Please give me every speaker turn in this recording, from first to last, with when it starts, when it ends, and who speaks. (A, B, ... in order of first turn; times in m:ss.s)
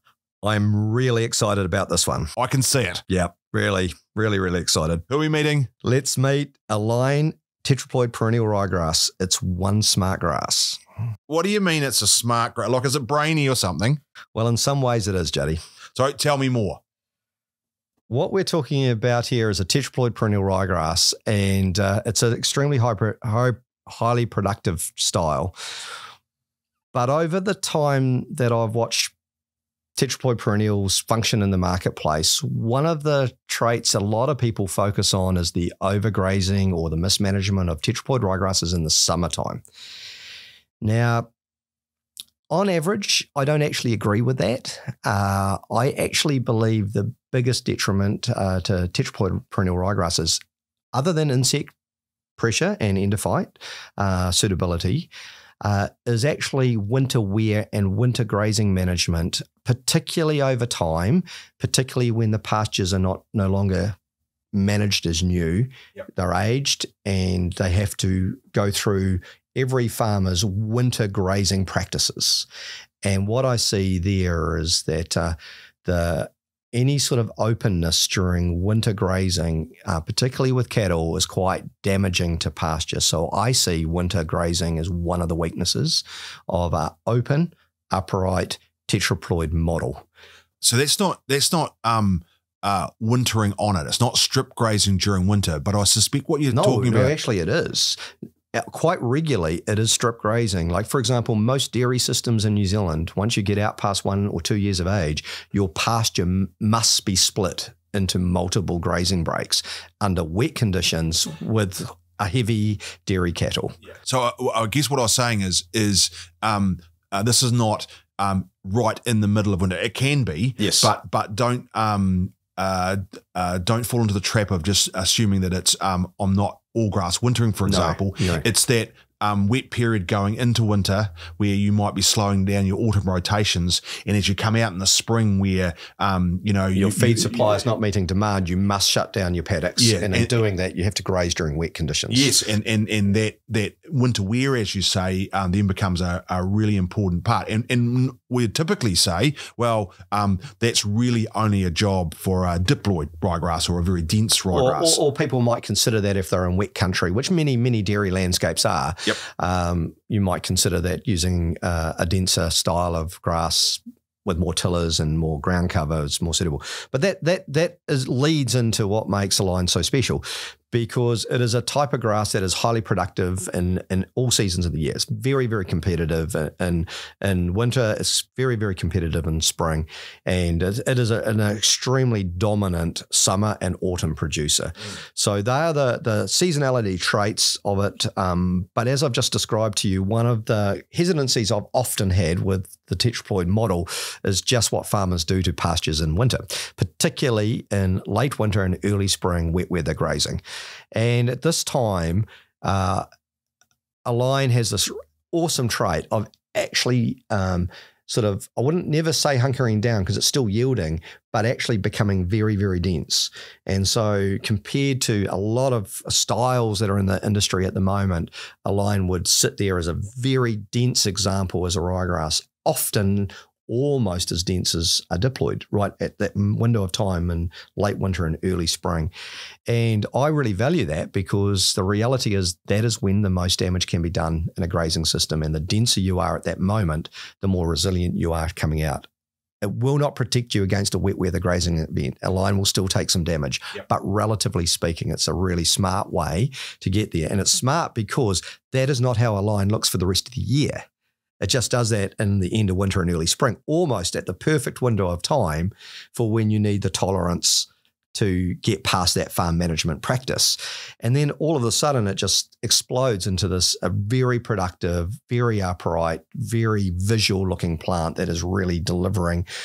0:00.4-0:02.3 A
0:02.4-0:03.0 B
0:03.1-0:05.0 A
0:05.1-0:05.7 B
0:05.8-0:10.8 A
0:11.3-0:14.0 B
0:14.3-0:15.6 A
0:16.0-0:16.8 B
0:18.1-0:25.6 A
0:26.9-0:29.1 A
0:30.0-0:39.6 A
0:40.8-0:41.3 A
0:42.5-0:50.4 A
0:50.9-0:51.7 A
0:52.4-0:55.1 A
0:55.6-1:04.0 A
1:04.5-1:12.5 A
1:13.0-1:30.0 A
1:30.6-1:37.2 B
1:36.5-1:38.0 A
1:38.5-1:53.8 A
1:54.0-2:17.6 B
2:00.6-2:00.9 A
2:07.7-2:08.4 A
2:16.8-2:22.3 A
2:19.8-2:20.3 B
2:22.1-2:35.0 B
2:34.5-3:20.4 A
3:20.9-3:23.0 A
3:24.1-3:49.1 A
3:49.7-3:59.1 A
3:59.6-4:10.8 A
4:11.4-4:29.5 A